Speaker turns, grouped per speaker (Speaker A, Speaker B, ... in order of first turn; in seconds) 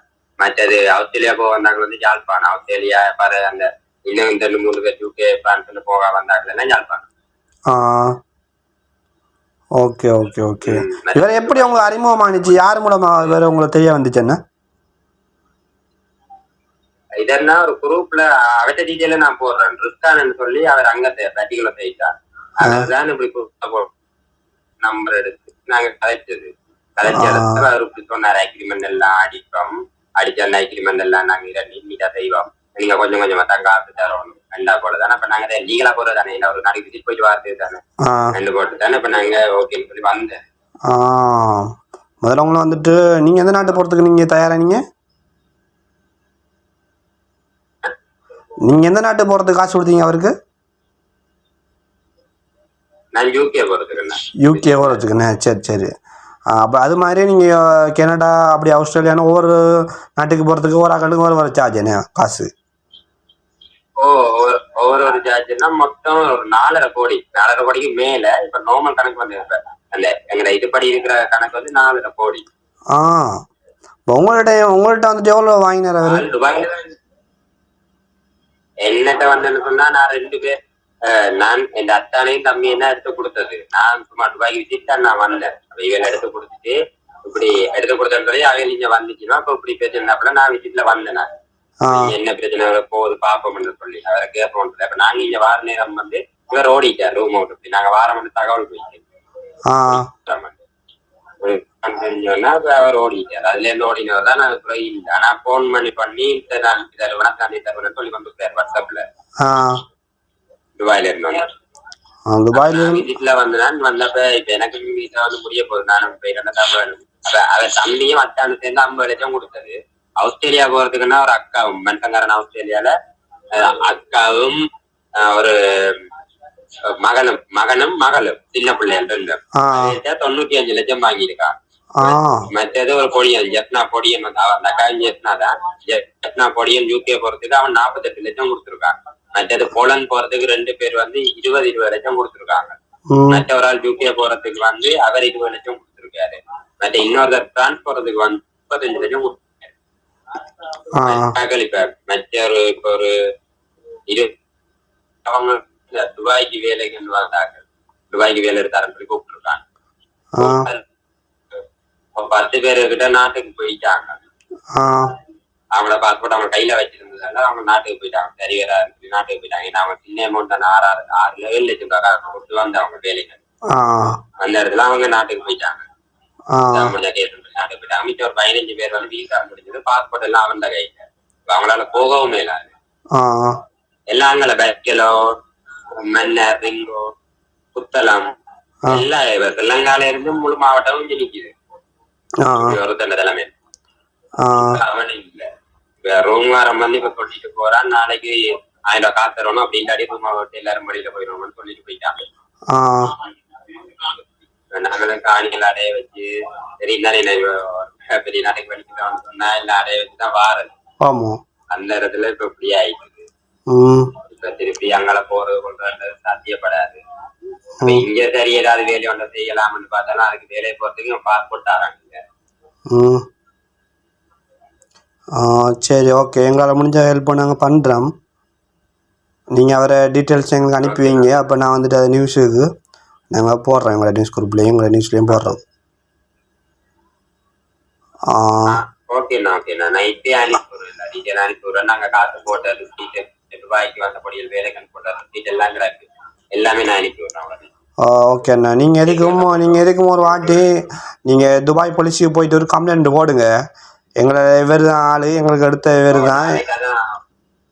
Speaker A: 0.4-7.1, 10.6-12.2, 17.2-23.9, 24.8-37.8, 38.3-40.4, 53.1-55.0, 64.0-72.4, 76.0-76.9, 78.8-86.8, 87.3-91.3, 91.9-99.0, 99.9-100.6, 101.4-109.0, 110.8-111.4, 112.5-122.9, 123.5-124.6, 125.2-126.0, 127.0-142.7, 143.3-149.7, 151.0-153.1, 155.2-159.6, 160.4-160.8, 162.2-164.2, 165.7-173.4, 174.4-175.8, 176.7-182.7, 184.1-185.1, 186.0-187.1, 187.7-188.3, 188.9-191.5, 192.6-193.5, 194.5-195.5, 196.1-198.4, 198.9-202.2, 204.7-206.3, 206.8-210.7, 211.7-213.3, 214.3-217.0, 217.8-222.2, 230.8-231.3, 238.7-247.7, 249.0-250.7, 256.1-257.1
Speaker B: 7.7-8.1, 9.8-14.4, 22.6-22.9, 27.0-27.6, 38.0-38.3, 40.9-41.7, 42.2-44.8, 48.7-50.3, 54.4-55.9, 56.5-62.5, 72.9-73.3, 74.1-76.2, 91.8-92.1, 99.7-100.0, 109.4-109.8, 112.3-113.0, 129.6-130.0, 132.0-132.5, 143.1-143.4, 151.0-151.3, 160.3-160.7, 164.7-165.1, 173.7-174.2, 176.5-176.9, 183.1-183.6, 192.4-192.8, 194.4-194.8, 202.7-203.1, 211.0-211.4, 213.7-214.1, 222.9-223.2, 225.3-228.1, 229.5-232.7, 233.3-235.6, 238.3-238.8, 248.0-250.7, 251.3-253.5, 254.2-256.6